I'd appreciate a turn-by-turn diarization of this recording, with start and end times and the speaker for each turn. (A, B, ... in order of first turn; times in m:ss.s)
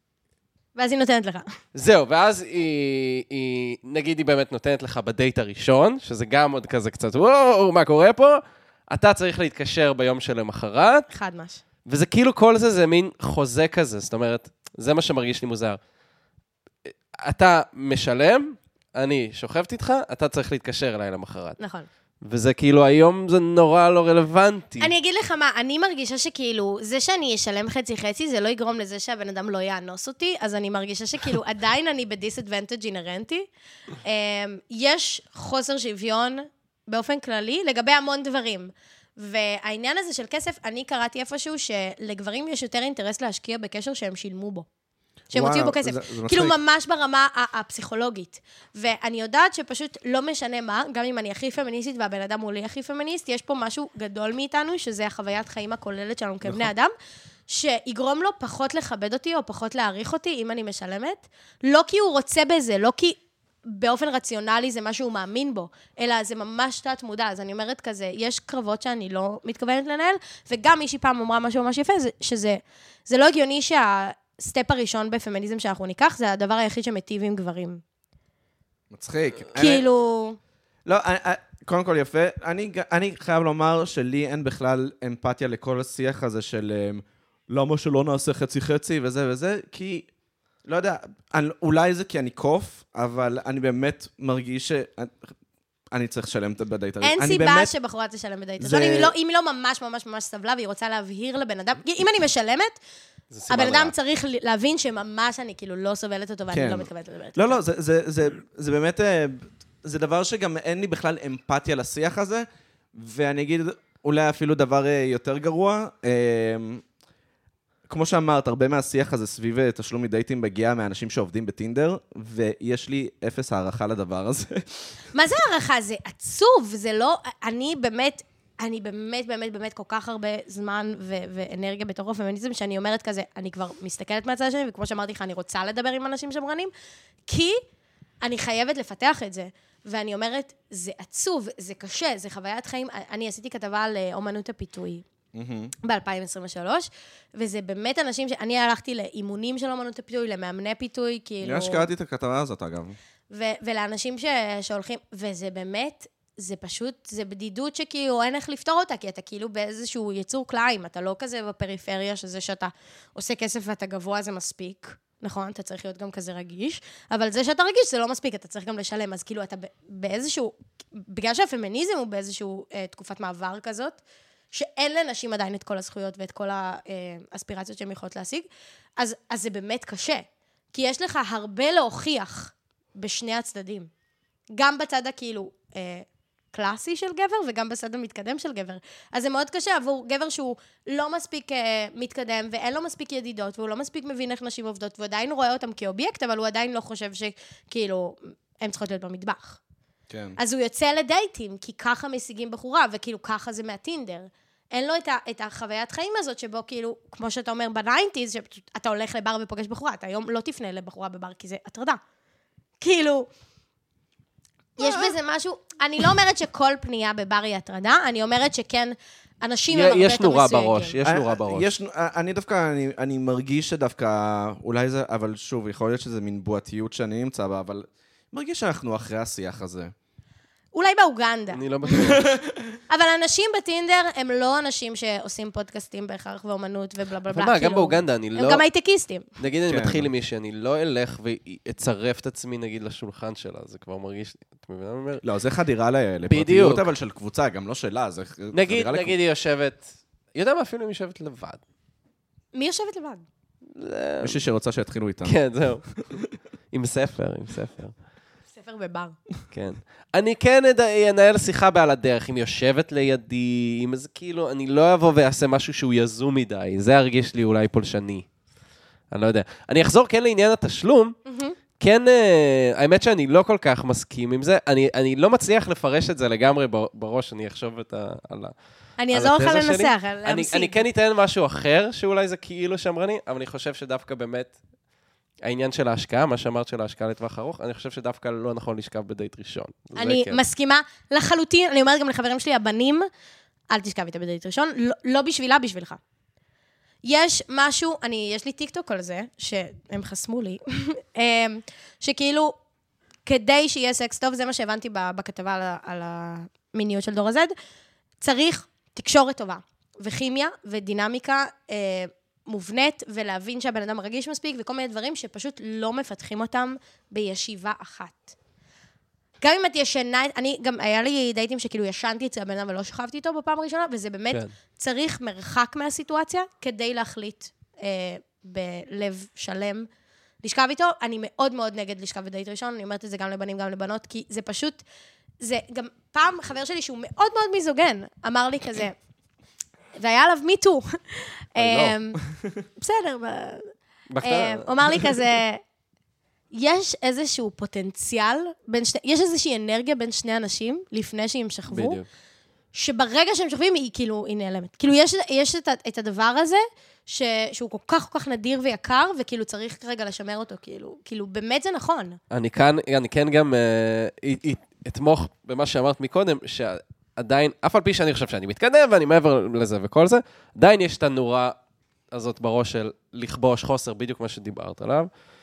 0:00.8-0:01.5 A
0:01.8-0:11.1 B
0:11.1-0:11.6 A
0:11.9-0:15.8 B
0:17.2-0:21.6 B
0:21.6-0:21.9 A
0:22.2-0:24.9 B
0:24.8-0:33.5 A
0:34.0-0:44.6 A
0:45.3-0:46.6 C
0:45.3-0:56.9 A
0:57.5-1:17.8 A
1:18.9-1:19.9 C
1:19.6-1:20.4 A
1:20.9-1:30.1 C
1:30.6-1:35.3 C
1:35.9-1:37.7 C
1:37.0-1:42.8 A
1:38.6-1:39.1 C
1:43.3-1:43.9 B
1:43.5-1:47.6 A
1:46.5-1:56.8 C
1:57.9-2:04.8 C
2:05.1-2:16.7 A
2:17.3-2:17.6 A
2:18.2-2:25.0 A
2:25.3-2:25.7 C
2:25.8-2:31.9 A
2:31.4-2:33.0 C
2:33.3-3:03.9 A
3:04.6-3:19.6 A
3:20.1-3:20.4 C
3:20.4-3:32.0 A
3:32.8-3:33.3 A
3:34.8-3:41.0 A
3:34.8-3:35.1 C
3:39.7-3:41.7 B
3:41.0-3:49.9 C
3:50.7-3:51.6 A
3:51.5-3:52.3 B
3:52.0-3:52.6 C
3:52.9-3:59.3 A
3:57.3-3:58.6 B
3:59.4-4:05.2 B
3:59.7-4:00.1 C
4:05.2-4:09.2 C
4:06.3-4:06.9 B
4:08.5-4:11.6 B
4:12.5-4:13.2 A
4:13.8-4:14.4 B
4:14.2-4:15.4 C
4:15.2-4:16.0 B
4:16.7-4:17.9 B
4:18.5-4:19.2 A
4:19.5-4:28.3 B
4:29.1-4:31.1 B
4:31.3-4:31.6 A
4:31.8-4:38.5 B
4:39.0-4:40.8 A
4:39.1-4:44.6 B
4:45.4-4:50.4 B
4:50.0-4:53.1 A
4:53.7-4:56.0 A
4:57.0-5:02.6 A
5:03.3-5:07.5 A
5:08.2-5:18.4 A
5:19.4-5:29.9 A
5:30.4-5:34.8 A
5:35.4-5:39.0 A
5:40.0-5:42.2 A
5:41.6-5:42.0 B
5:42.8-5:43.7 A
5:44.1-5:45.1 B
5:44.2-5:45.6 A
5:46.5-5:52.0 A
5:51.7-5:52.0 B
5:52.7-6:02.2 A
6:02.3-6:11.6 B
6:12.1-6:15.1 B